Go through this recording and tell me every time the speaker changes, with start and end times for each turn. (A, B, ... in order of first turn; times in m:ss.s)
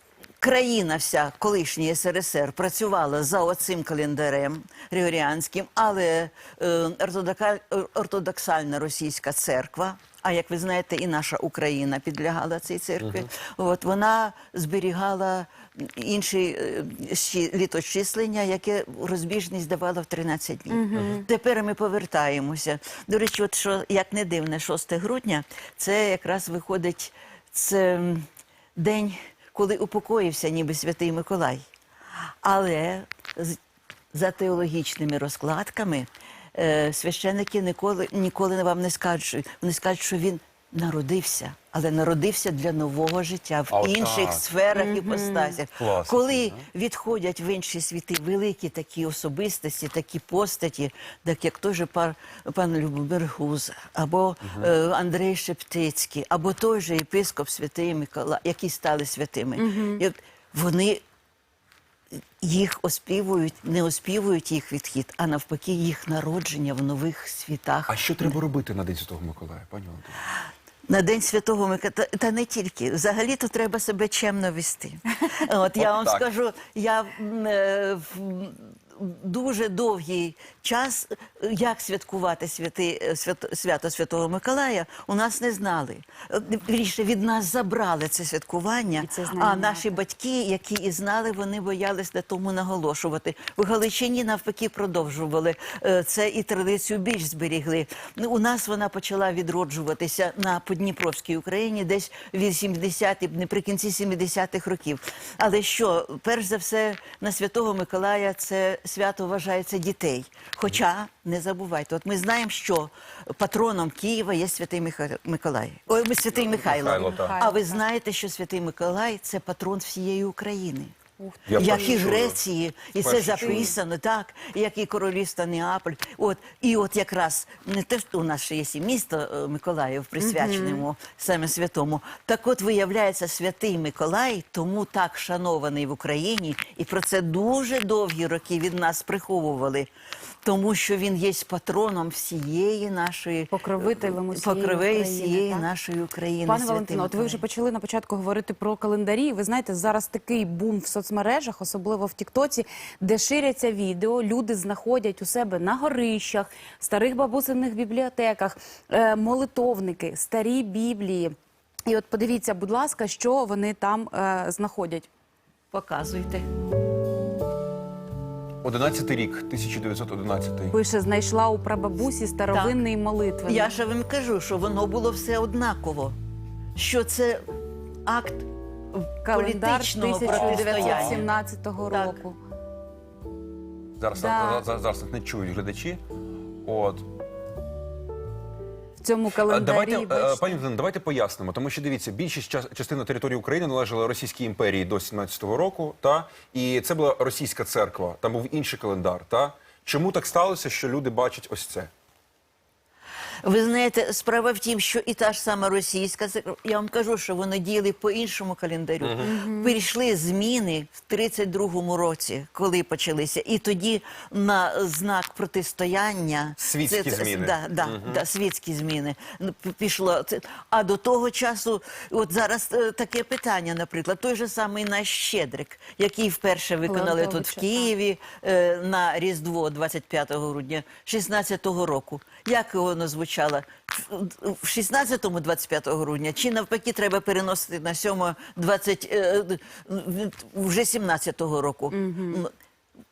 0:00.4-0:31.6 A
0:13.0-0:13.3 B
0:20.7-0:21.2 C
0:20.9-0:21.2 B
0:32.4-0:33.6 A
0:34.1-1:01.0 A
0:43.7-0:44.4 B
0:44.7-0:45.6 C
0:45.8-0:46.6 B
0:54.4-0:54.7 B
0:59.6-1:00.0 C
1:02.4-1:08.4 A
1:07.9-1:10.2 B
1:10.9-2:00.9 A
1:15.8-1:16.2 B
1:29.0-1:29.9 C
1:56.6-1:57.3 B
1:56.7-1:57.8 C
2:01.2-2:02.0 C
2:01.5-2:02.4 B
2:01.6-2:19.9 A
2:03.0-2:03.7 B
2:03.4-2:03.7 C
2:10.2-2:10.8 C
2:20.4-2:27.4 A
2:23.5-2:25.7 C
2:26.4-2:41.3 C
2:41.9-2:45.1 C
2:45.7-2:46.5 A
2:48.6-2:50.8 B
2:50.7-2:53.7 C
2:52.5-2:52.8 A
2:53.4-2:56.2 A
2:56.8-2:57.4 A
2:58.0-3:01.3 A
2:59.2-3:02.4 C
3:00.3-3:01.2 B
3:01.9-3:02.2 A
3:04.0-3:06.0 B
3:04.1-3:04.6 C
3:06.6-3:07.1 B
3:09.0-3:10.6 C
3:09.4-3:21.9 B
3:23.4-4:02.5 A
3:29.0-3:29.3 B
3:29.2-3:29.8 C
3:36.6-3:38.2 B
3:46.8-3:47.9 C
4:01.9-4:02.4 C